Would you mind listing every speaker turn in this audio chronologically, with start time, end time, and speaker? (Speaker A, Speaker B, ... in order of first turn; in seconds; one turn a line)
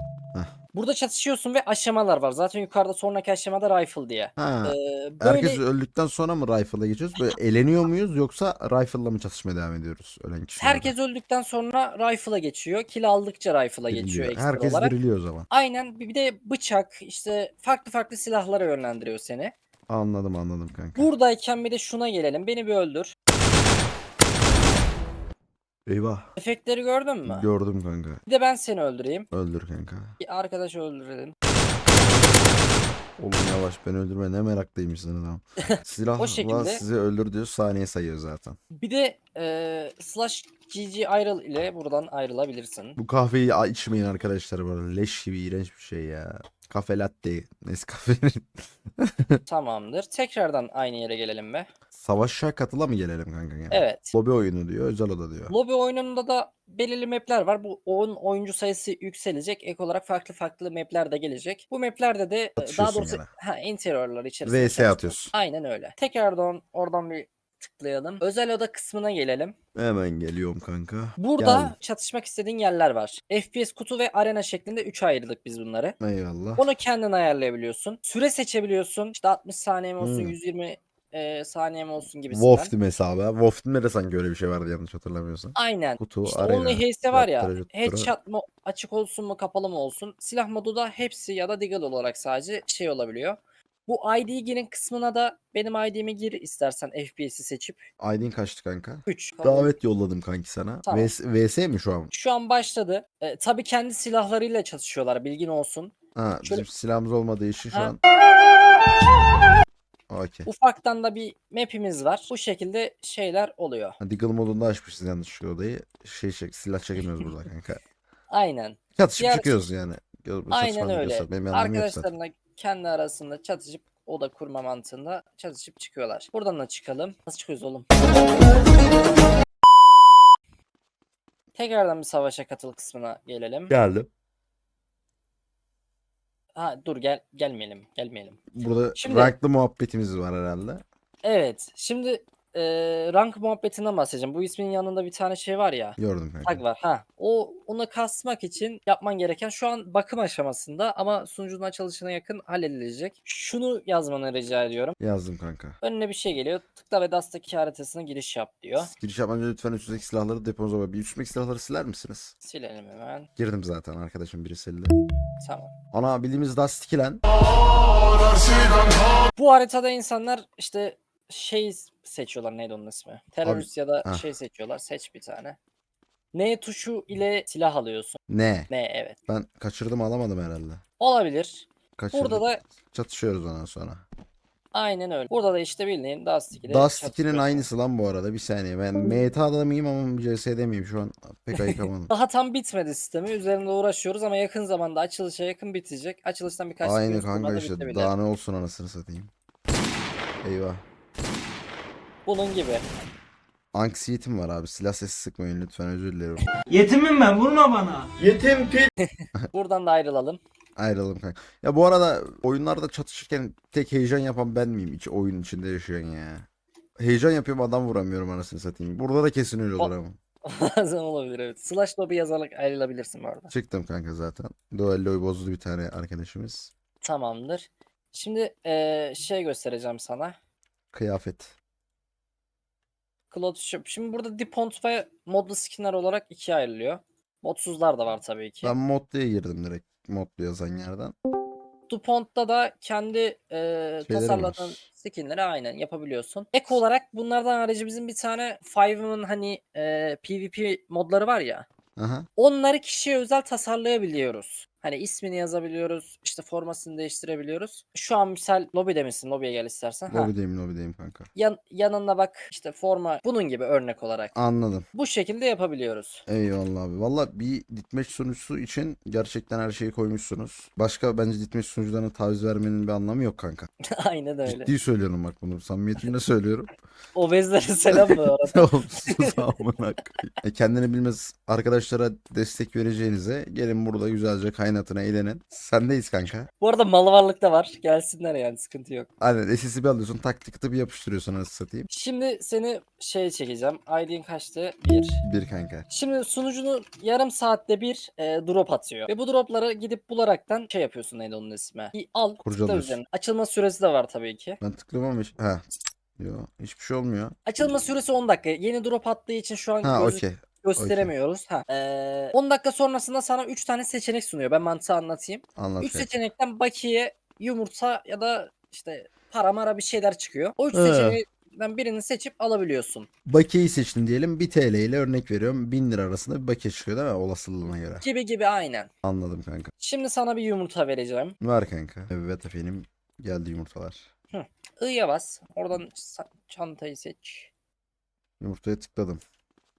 Speaker A: 0.7-5.6
Speaker B: 4.4-10.9
Speaker A: 10.6-14.9
Speaker B: 13.9-15.5
Speaker A: 15.5-19.5
Speaker B: 19.9-21.1
Speaker A: 21.0-23.1
Speaker B: 25.9-26.3
Speaker A: 26.4-27.5
Speaker B: 27.2-28.2
Speaker A: 28.3-29.3
Speaker B: 29.3-30.2
Speaker A: 30.2-31.3
Speaker B: 33.2-38.6
Speaker A: 35.6-36.8
Speaker A: 38.8-43.0
Speaker B: 43.0-49.4
Speaker A: 49.5-51.7
Speaker B: 51.9-55.5
Speaker A: 53.7-54.1
Speaker A: 55.5-69.5
Speaker B: 62.6-63.3
Speaker B: 64.5-65.3
Speaker B: 69.8-71.8
Speaker A: 71.2-76.0
Speaker B: 76.0-76.7
Speaker A: 76.6-82.7
Speaker B: 80.0-80.4
Speaker B: 82.3-88.1
Speaker A: 85.5-97.8
Speaker B: 98.0-102.1
Speaker A: 99.1-99.7
Speaker A: 100.9-101.1
Speaker A: 102.1-105.9
Speaker B: 106.2-108.0
Speaker A: 107.7-108.0
Speaker B: 110.1-110.5
Speaker A: 110.5-114.0
Speaker B: 114.0-117.8
Speaker A: 118.3-119.6
Speaker B: 119.0-122.1
Speaker A: 120.5-128.5
Speaker A: 131.6-133.7
Speaker B: 133.7-134.1
Speaker A: 136.6-138.4
Speaker B: 138.5-140.8
Speaker A: 139.0-139.3
Speaker A: 141.2-155.0
Speaker B: 146.0-146.6
Speaker B: 155.0-155.8
Speaker A: 155.8-158.9
Speaker B: 158.8-162.3
Speaker A: 162.4-163.3
Speaker B: 163.4-164.9
Speaker A: 165.4-165.7
Speaker B: 165.9-167.2
Speaker A: 169.3-175.6
Speaker B: 173.4-174.2
Speaker A: 176.3-179.2
Speaker B: 178.3-178.7
Speaker B: 179.3-180.8
Speaker A: 181.0-182.6
Speaker B: 182.0-184.0
Speaker A: 184.7-187.7
Speaker B: 186.7-192.1
Speaker A: 191.6-198.1
Speaker B: 196.8-199.3
Speaker B: 200.4-200.8
Speaker A: 202.3-202.8
Speaker B: 203.7-206.5
Speaker C: 206.7-208.9
Speaker A: 209.0-210.4
Speaker B: 210.8-216.5
Speaker B: 217.0-220.2
Speaker A: 220.4-223.5
Speaker B: 223.5-226.7
Speaker A: 227.0-230.4
Speaker B: 230.9-231.5
Speaker A: 233.3-238.7
Speaker B: 238.6-241.1
Speaker A: 241.9-251.7
Speaker B: 244.1-244.8
Speaker B: 252.0-252.3
Speaker A: 252.4-260.3
Speaker B: 260.1-261.3
Speaker A: 261.4-264.3
Speaker B: 264.4-264.9
Speaker A: 264.9-266.2
Speaker B: 266.3-273.7
Speaker A: 273.9-274.7
Speaker B: 274.4-276.7
Speaker A: 277.1-279.4
Speaker B: 277.9-286.5
Speaker A: 286.6-289.1
Speaker B: 289.2-291.9
Speaker A: 291.9-295.2
Speaker B: 295.2-295.9
Speaker A: 295.9-304.6
Speaker B: 302.4-303.0
Speaker B: 304.6-305.6
Speaker B: 306.2-307.3
Speaker A: 307.5-323.1
Speaker B: 309.8-311.1
Speaker B: 315.6-316.2
Speaker B: 320.7-321.2
Speaker B: 323.3-328.0
Speaker A: 328.0-328.9
Speaker B: 329.0-329.7
Speaker A: 329.8-331.4
Speaker B: 331.4-334.1
Speaker A: 334.3-337.5
Speaker B: 338.4-339.2